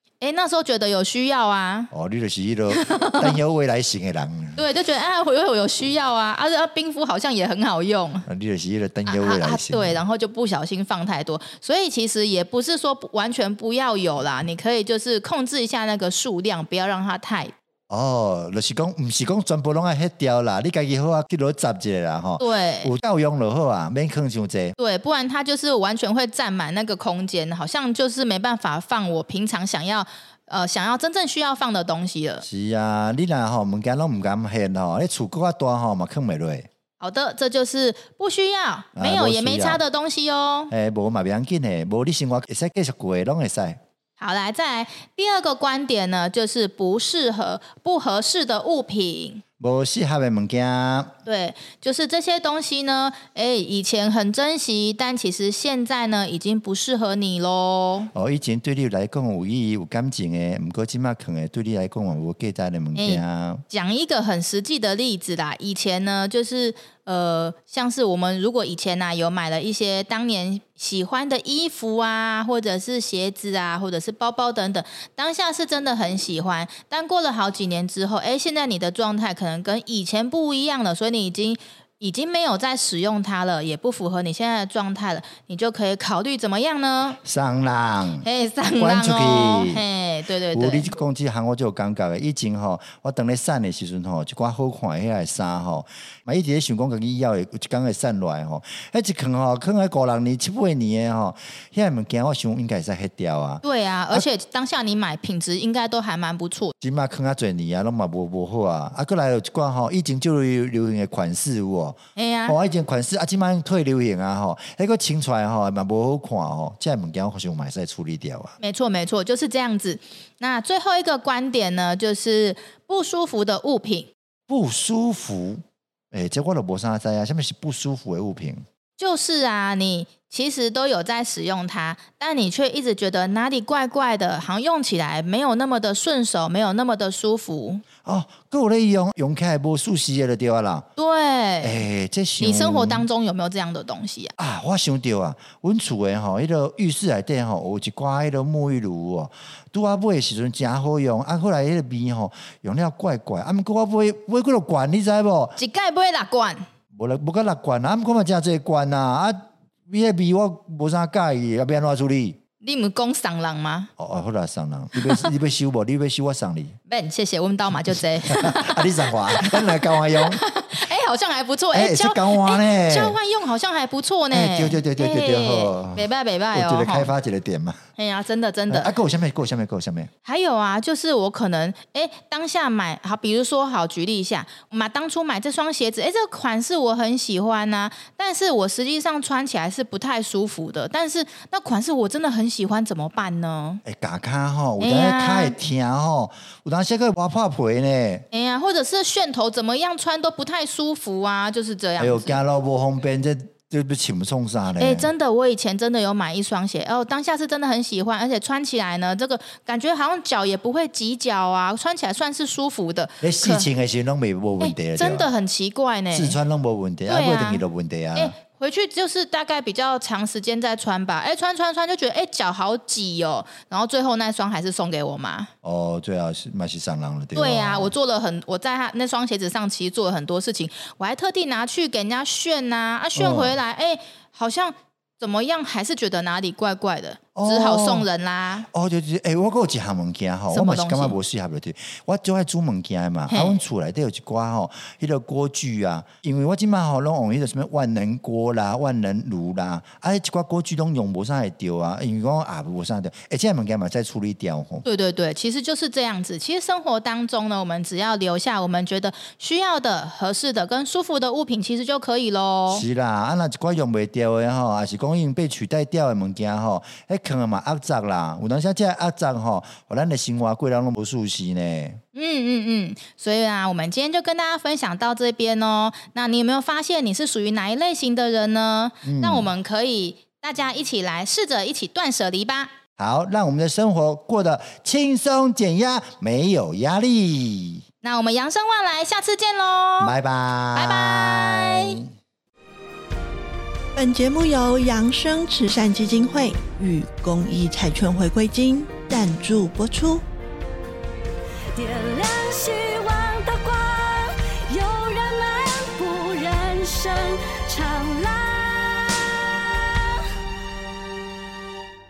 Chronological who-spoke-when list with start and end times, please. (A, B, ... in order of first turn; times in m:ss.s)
0:00.2-0:01.9 A
0:01.9-0:04.6 B
0:02.7-0:03.4 A
0:04.6-0:08.3 A
0:08.3-0:10.0 B
0:09.1-0:17.5 A
0:17.9-0:24.8 B
0:22.4-0:22.9 A
0:24.8-0:32.4 A
0:32.4-0:36.7 B
0:37.0-0:40.7 A
0:39.0-0:39.8 B
0:40.7-0:43.8 B
0:44.2-0:49.4 A
0:49.6-0:51.1 B
0:51.3-0:58.1 A
0:58.1-1:03.6 B
1:03.0-1:27.2 A
1:27.2-1:29.8 B
1:28.2-1:30.9 A
1:30.5-1:44.3 B
1:43.6-1:46.7 A
1:46.8-1:58.6 B
1:52.2-1:52.6 A
1:58.6-2:04.1 A
2:04.5-2:08.6 B
2:09.0-2:17.8 A
2:18.0-2:20.9 B
2:21.0-2:21.8 A
2:21.6-2:23.1 B
2:22.4-2:24.3 A
2:24.4-2:35.6 B
2:35.6-2:36.6 A
2:37.0-2:42.4 B
2:42.6-2:43.9 A
2:44.0-2:46.8 B
2:45.0-2:45.3 A
2:46.9-2:57.1 A
2:48.2-2:50.4 B
2:51.7-2:53.2 B
2:54.3-2:57.8 B
2:58.0-2:58.9 A
2:58.7-3:00.1 B
3:00.2-3:13.8 A
3:13.8-3:18.3 B
3:14.8-3:15.6 A
3:18.3-3:22.4 A
3:22.0-3:25.1 B
3:24.8-3:33.7 A
3:33.2-3:35.3 B
3:34.6-3:36.4 A
3:36.1-3:38.4 B
3:37.1-3:37.6 A
3:38.2-3:45.5 A
3:45.6-3:47.9 B
3:47.3-3:58.7 A
3:53.2-3:53.6 B
3:57.4-3:58.1 B
3:58.7-4:14.8 B
4:00.5-4:01.2 A
4:03.3-4:03.6 A
4:14.8-4:22.8 A
4:22.7-4:32.0 B
4:32.1-4:42.7 A
4:39.0-4:39.5 B
4:43.0-4:47.8 B
4:48.0-4:50.2 A
4:50.0-4:52.0 B
4:50.7-4:52.0 A
4:54.0-5:00.2 C
5:01.8-5:10.3 D